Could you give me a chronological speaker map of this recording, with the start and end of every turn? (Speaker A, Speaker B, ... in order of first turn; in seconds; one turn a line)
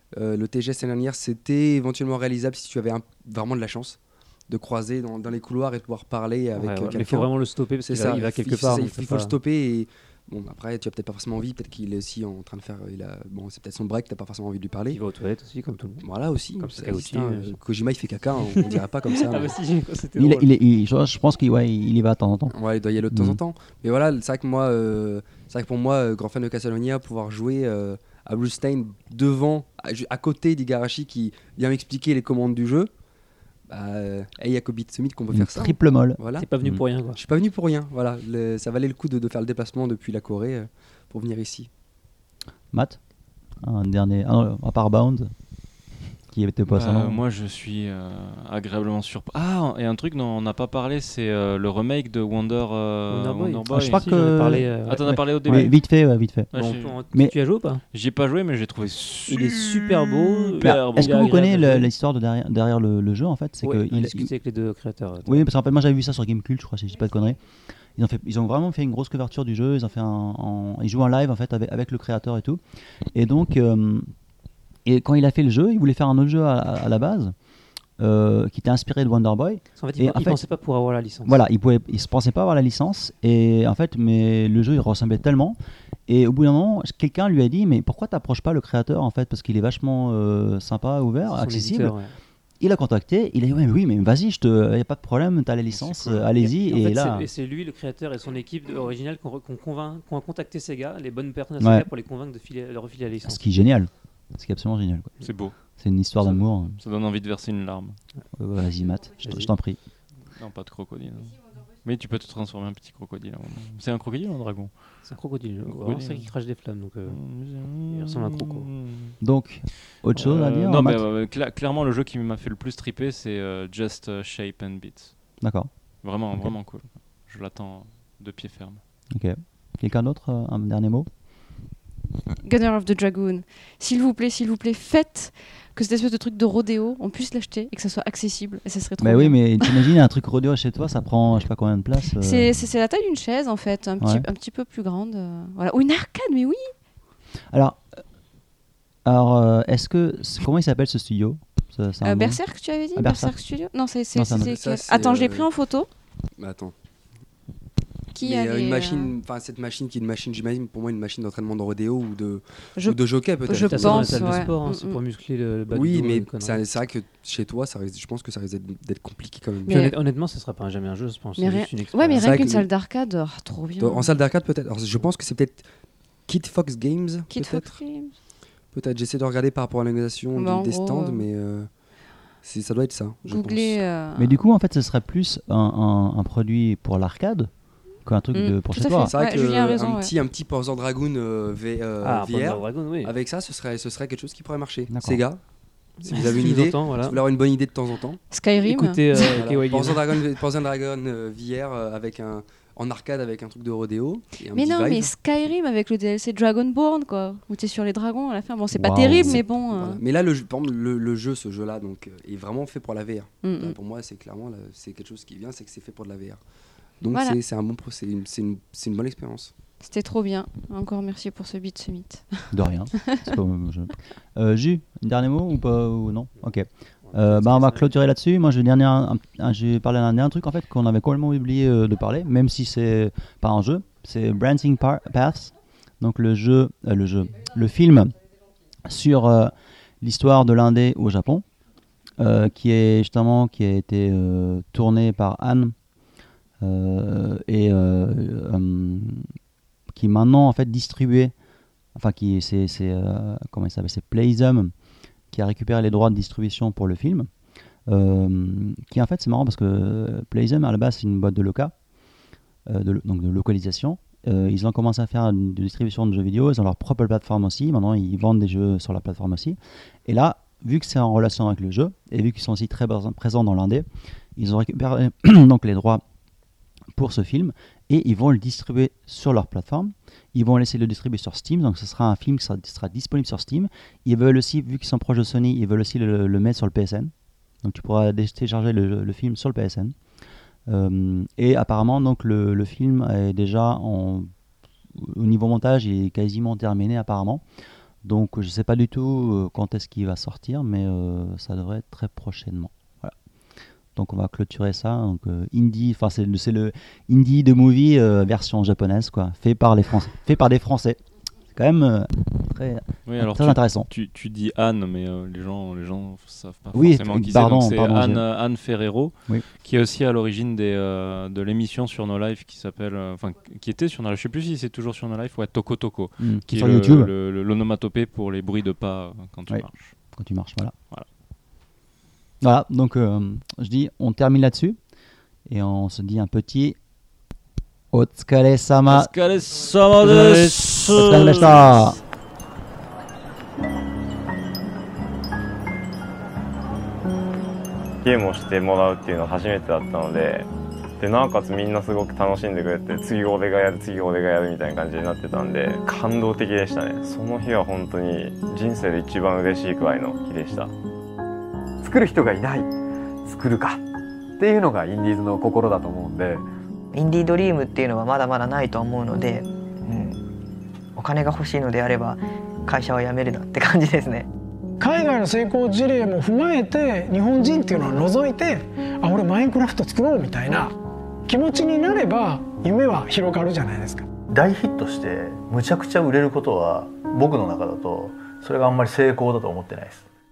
Speaker A: 0.1-15.0
Speaker B: 6.5-9.3
Speaker B: 14.9-17.6
Speaker A: 16.0-19.5
Speaker B: 18.5-20.5
Speaker C: 20.2-22.6
Speaker A: 22.5-32.9
Speaker C: 23.1-23.4
Speaker A: 33.7-36.5
Speaker C: 35.3-36.8
Speaker B: 36.4-37.2
Speaker A: 37.1-41.7
Speaker C: 42.7-43.0
Speaker C: 43.6-45.3
Speaker C: 46.3-47.2
Speaker D: 46.7-54.1
Speaker B: 53.1-55.8
Speaker C: 53.7-56.5
Speaker D: 54.9-55.8
Speaker D: 56.5-57.0
Speaker B: 56.5-57.8
Speaker D: 57.9-61.4
Speaker B: 59.3-61.9
Speaker C: 60.6-64.3
Speaker B: 63.6-65.5
Speaker C: 65.3-67.4
Speaker C: 68.0-72.6
Speaker C: 73.1-74.1
Speaker C: 74.8-77.3
Speaker C: 78.0-80.4
Speaker B: 79.8-81.4
Speaker C: 81.2-92.0
Speaker B: 91.2-92.1
Speaker C: 92.6-97.3
Speaker D: 95.7-96.3
Speaker B: 96.3-103.4
Speaker C: 101.6-101.9
Speaker C: 103.2-105.1
Speaker D: 105.2-105.5
Speaker C: 105.8-106.8
Speaker D: 106.8-108.0
Speaker C: 108.4-109.8
Speaker B: 109.2-109.5
Speaker D: 110.3-114.9
Speaker B: 115.0-117.2
Speaker D: 115.7-116.3
Speaker D: 117.0-119.2
Speaker B: 117.8-118.7
Speaker C: 119.2-121.0
Speaker D: 120.2-125.2
Speaker C: 125.4-125.7
Speaker D: 126.0-128.8
Speaker C: 129.1-131.1
Speaker E: 132.4-139.8
Speaker C: 139.0-142.5
Speaker E: 142.2-146.7
Speaker C: 144.0-144.2
Speaker C: 147.5-147.8
Speaker C: 149.1-152.4
Speaker E: 152.0-155.9
Speaker C: 152.9-153.3
Speaker C: 154.2-154.5
Speaker A: 154.4-155.5
Speaker A: 156.4-156.7
Speaker E: 158.1-159.1
Speaker A: 158.2-164.5
Speaker E: 162.8-165.0
Speaker B: 163.5-166.6
Speaker A: 165.7-169.9
Speaker E: 169.7-169.9
Speaker B: 169.7-172.5
Speaker E: 171.4-174.2
Speaker A: 172.1-172.7
Speaker A: 173.8-175.6
Speaker A: 176.3-177.8
Speaker E: 177.3-178.1
Speaker A: 178.7-181.7
Speaker E: 180.3-181.2
Speaker A: 182.4-183.8
Speaker E: 183.2-184.3
Speaker C: 184.2-187.5
Speaker C: 188.1-189.1
Speaker E: 188.3-190.1
Speaker A: 189.0-195.4
Speaker B: 192.0-193.1
Speaker C: 194.9-195.2
Speaker B: 196.0-197.2
Speaker A: 196.0-198.2
Speaker E: 198.3-199.0
Speaker B: 198.6-200.2
Speaker A: 199.2-205.1
Speaker E: 204.5-210.0
Speaker C: 208.7-209.4
Speaker A: 209.0-216.4
Speaker E: 213.4-213.8
Speaker A: 217.0-219.5
Speaker E: 217.1-217.4
Speaker E: 219.8-222.5
Speaker C: 222.5-238.2
Speaker B: 227.0-227.9
Speaker C: 238.8-241.4
Speaker C: 242.2-245.7
Speaker C: 246.6-249.3
Speaker C: 249.9-251.3
Speaker C: 251.9-254.7
Speaker C: 255.3-257.3
Speaker C: 257.9-261.7
Speaker C: 262.7-276.0
Speaker C: 276.9-289.9
Speaker C: 290.7-294.3
Speaker C: 294.9-297.4
Speaker C: 298.0-303.1
Speaker C: 304.0-311.0
Speaker C: 311.5-313.9
Speaker D: 313.1-329.9
Speaker C: 316.7-318.2
Speaker C: 326.2-327.1
Speaker C: 330.1-330.7
Speaker C: 332.4-334.8
Speaker C: 335.5-336.8
Speaker C: 337.9-339.1
Speaker D: 338.9-342.0
Speaker C: 340.0-342.0
Speaker F: 348.0-350.5
Speaker F: 351.0-360.7
Speaker G: 361.8-362.7
Speaker G: 363.2-363.8
Speaker G: 364.4-366.4
Speaker H: 366.9-370.2
Speaker H: 371.0-374.3
Speaker I: 374.8-380.7
Speaker I: 381.3-384.1
Speaker J: 384.3-390.1